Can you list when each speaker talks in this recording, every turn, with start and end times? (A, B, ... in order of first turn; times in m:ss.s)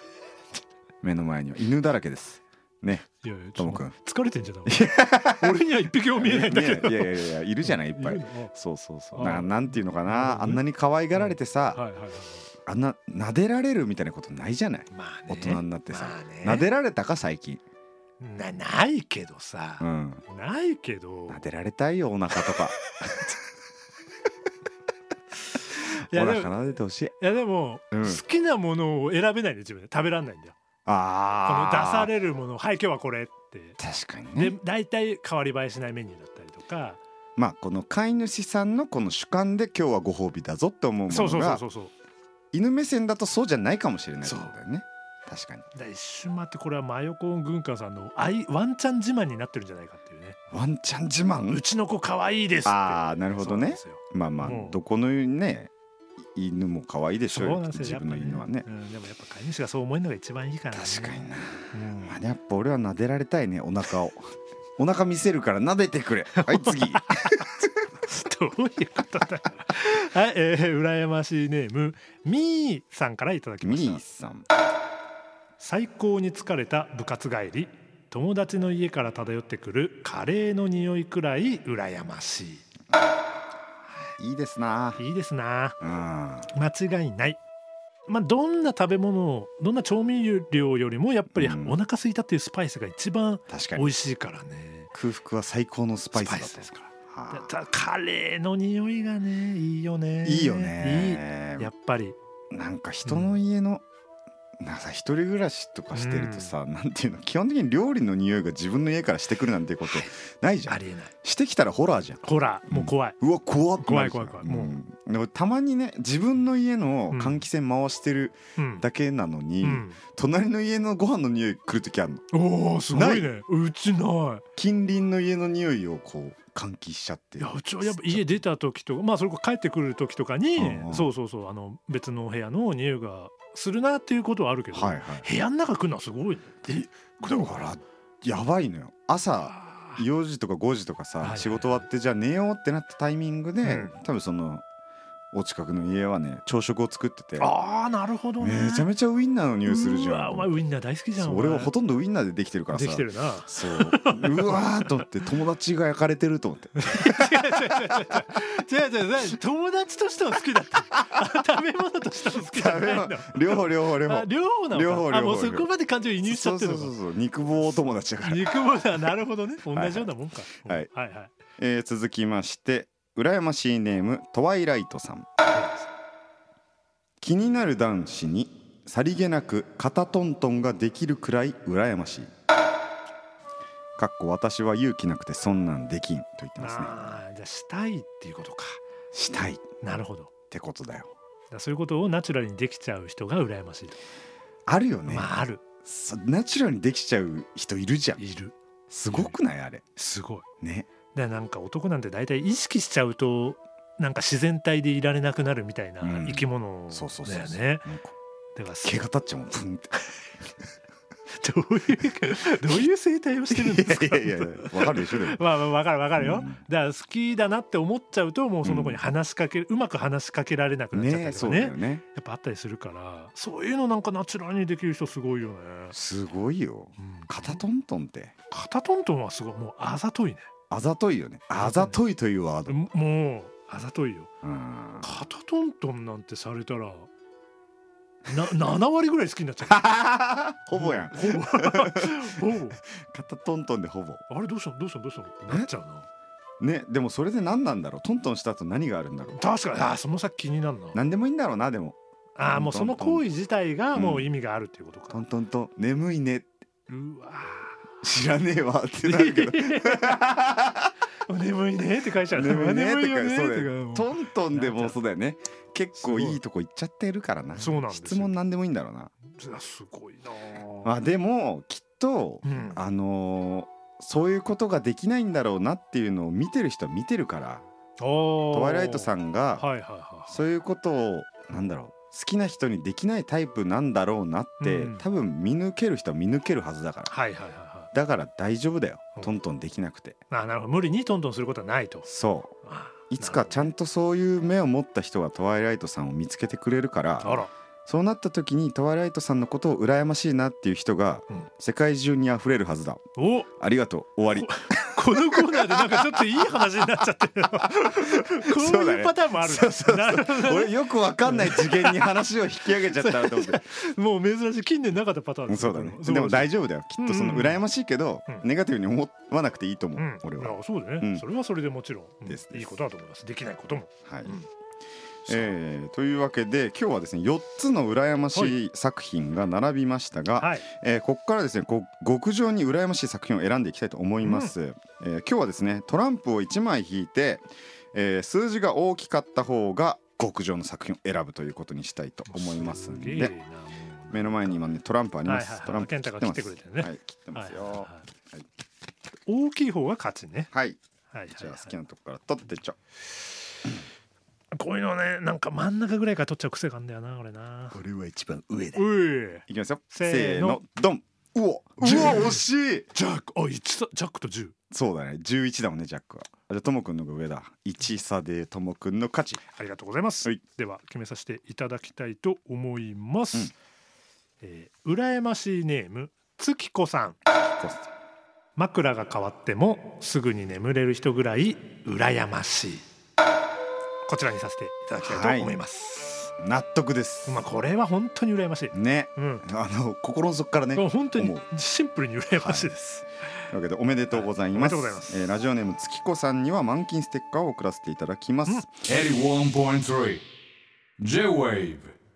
0:01.0-0:03.9 A
0:03.1-0:08.5 B
0:04.7-0:11.8 A
0:09.1-0:12.5 B
0:12.7-0:17.6 A
0:14.9-0:16.7 B
0:18.2-0:21.4 B
0:19.8-0:20.2 A
0:21.3-0:22.8 A
0:25.7-0:26.5 B
0:26.1-0:27.2 A
0:27.2-0:30.6 B
0:27.9-0:28.2 A
0:30.9-0:32.1 A
0:31.4-0:33.8 B
0:33.8-0:34.5 A
0:34.4-0:37.0 B
0:37.4-0:41.6 A
0:41.1-0:41.9 B
0:42.5-0:45.6 A
0:44.2-0:44.6 B
0:45.8-0:50.4 B
0:50.5-0:51.6 A
0:51.5-0:54.8 B
0:52.6-0:55.7 A
0:56.4-0:58.7 A
0:57.3-1:02.2 B
1:00.7-1:04.2 A
1:04.8-1:07.7 A
1:06.4-1:07.5 B
1:08.0-1:14.0 B
1:13.6-1:14.5 A
1:15.6-1:22.7 B
1:24.2-1:25.0 A
1:25.0-1:25.8 B
1:25.8-1:26.5 A
1:26.5-1:27.4 B
1:28.1-1:34.9 B
1:31.4-1:31.8 A
1:33.5-1:33.9 A
1:34.9-1:37.5 A
1:36.1-1:42.2 B
1:40.2-1:41.7 A
1:42.5-1:43.8 A
1:43.0-1:43.4 B
1:44.6-2:02.2 A
1:45.9-1:46.5 B
1:49.8-1:50.1 B
1:50.7-1:51.1 B
1:52.2-1:53.2 B
1:53.8-1:54.8 B
1:57.1-1:57.4 B
1:58.6-1:58.9 B
1:59.6-2:00.0 B
2:02.3-2:04.4 B
2:02.9-2:03.3 A
2:04.6-2:08.4 A
2:07.4-2:17.7 B
2:10.6-2:11.1 A
2:14.7-2:15.3 A
2:17.2-2:24.6 A
2:19.5-2:20.0 B
2:21.2-2:21.9 B
2:23.6-2:23.9 B
2:25.3-2:27.5 A
2:27.4-2:28.9 B
2:28.4-2:30.5 A
2:29.7-2:31.7 B
2:31.2-2:37.9 A
2:32.7-2:35.1 B
2:36.8-2:47.0 B
2:42.4-2:45.7 A
2:46.2-2:48.5 A
2:47.6-2:51.3 B
2:49.7-2:50.1 A
2:51.6-2:55.3 A
2:55.4-2:55.9 B
2:57.2-3:02.3 A
3:04.0-3:07.0 A
3:06.6-3:08.8 B
3:09.1-3:09.7 A
3:09.8-3:10.3 B
3:10.5-3:11.1 A
3:11.5-3:14.0 B
3:14.7-3:15.3 A
3:15.1-3:15.6 B
3:15.8-3:18.2 A
3:18.2-3:18.6 B
3:18.9-3:19.8 A
3:19.1-3:19.4 B
3:20.0-3:20.4 B
3:20.6-3:20.9 A
3:21.1-3:27.9 B
3:26.0-3:28.1 A
3:28.6-3:29.1 B
3:28.8-3:30.1 A
3:31.3-3:46.0 B
3:33.5-3:35.4 A
3:36.2-3:36.6 A
3:38.6-3:39.0 A
3:40.9-3:42.0 A
3:45.9-3:48.3 A
3:47.0-3:47.6 B
3:48.5-3:50.5 B
3:50.7-3:52.8 A
3:51.6-3:52.0 B
3:52.7-3:54.3 B
3:54.4-3:55.1 A
3:55.0-3:57.1 B
3:58.3-3:59.9 B
3:59.6-4:04.2 A
4:00.7-4:02.8 B
4:04.3-4:06.1 B
4:06.6-4:09.4 A
4:09.3-4:11.0 B
4:10.9-4:12.0 A
4:12.4-4:15.2 B
4:12.5-4:13.2 A
4:13.9-4:14.3 A
4:15.1-4:16.5 A
4:16.9-4:18.0 B
4:18.0-4:20.9 A
4:19.0-4:20.2 B
4:21.3-4:25.0 B
4:22.3-4:29.1 A
4:26.0-4:26.4 B
4:27.6-4:28.4 B
4:29.3-4:31.0 B
4:30.8-4:37.6 A
4:32.4-4:32.8 B
4:38.0-4:40.4 B
4:38.5-4:39.7 A
4:40.3-4:47.1 A
4:44.6-4:45.1 B
4:47.1-4:47.9 B
4:47.9-4:50.2 A
4:50.3-4:52.1 B
4:52.1-4:52.6 A
4:52.6-4:53.7 B
4:53.1-5:03.0 A
4:57.2-4:57.5 B
5:03.2-5:03.5 B
5:03.6-5:06.1 A
5:04.5-5:17.6 B
5:08.0-5:13.6 A
5:15.5-5:21.2 A
5:20.0-5:24.5 B
5:22.3-5:22.7 A
5:24.0-5:24.4 A
5:25.3-5:25.5 B
5:25.3-5:43.3 A
5:30.4-5:30.7 B
5:34.2-5:34.5 B
5:42.3-5:44.6 B
5:44.1-5:48.4 A
5:45.2-5:48.0 B
5:49.3-5:50.5 B
5:50.5-5:52.8 A
5:51.1-5:51.8 B
5:54.6-5:57.8 B
5:57.7-5:58.8 A
5:58.8-6:00.6 B
5:59.5-6:02.9 A
6:01.8-6:04.6 B
6:04.7-6:09.4 A
6:09.5-6:13.5 B
6:14.4-6:17.2 B
6:17.5-6:17.9 A
6:18.6-6:22.8 B
6:24.1-6:26.3 B
6:25.0-6:25.5 A
6:26.4-6:27.4 A
6:27.2-6:29.5 B
6:28.7-6:31.4 A
6:30.8-6:33.4 B
6:32.4-6:32.7 A
6:33.5-6:38.7 A
6:34.1-6:35.3 B
6:38.8-6:40.2 C
6:41.0-6:42.0 C